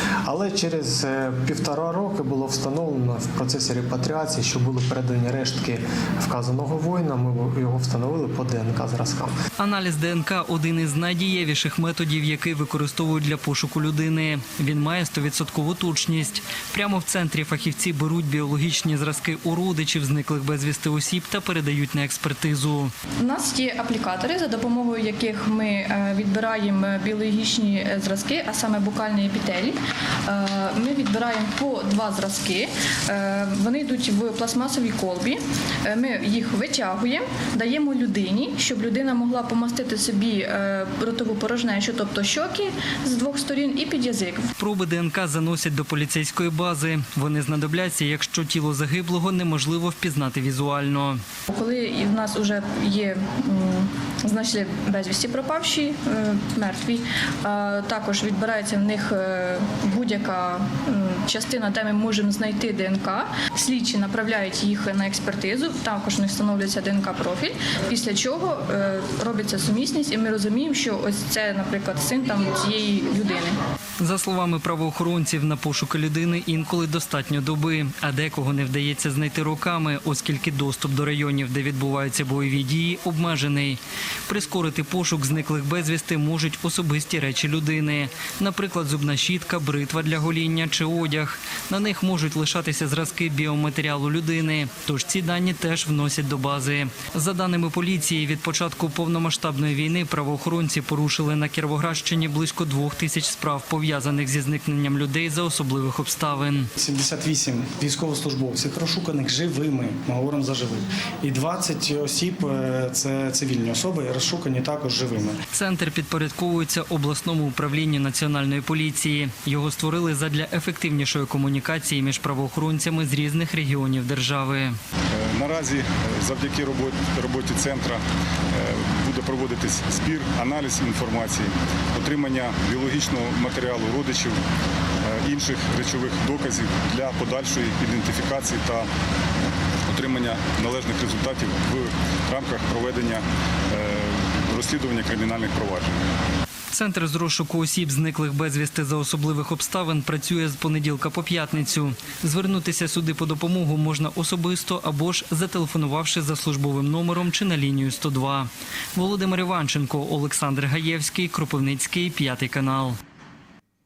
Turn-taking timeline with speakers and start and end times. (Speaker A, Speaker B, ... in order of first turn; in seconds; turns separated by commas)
Speaker A: 0.2-9.3, Speaker B: 9.6-22.9, Speaker C: 23.2-44.5, Speaker B: 44.6-51.2, Speaker C: 51.5-73.6, Speaker B: 74.0-106.7, Speaker D: 106.8-115.4, Speaker B: 115.5-124.8, Speaker E: 125.2-134.4, Speaker E: 135.0-138.9, Speaker E: 139.9-146.1, Speaker B: 146.7-163.0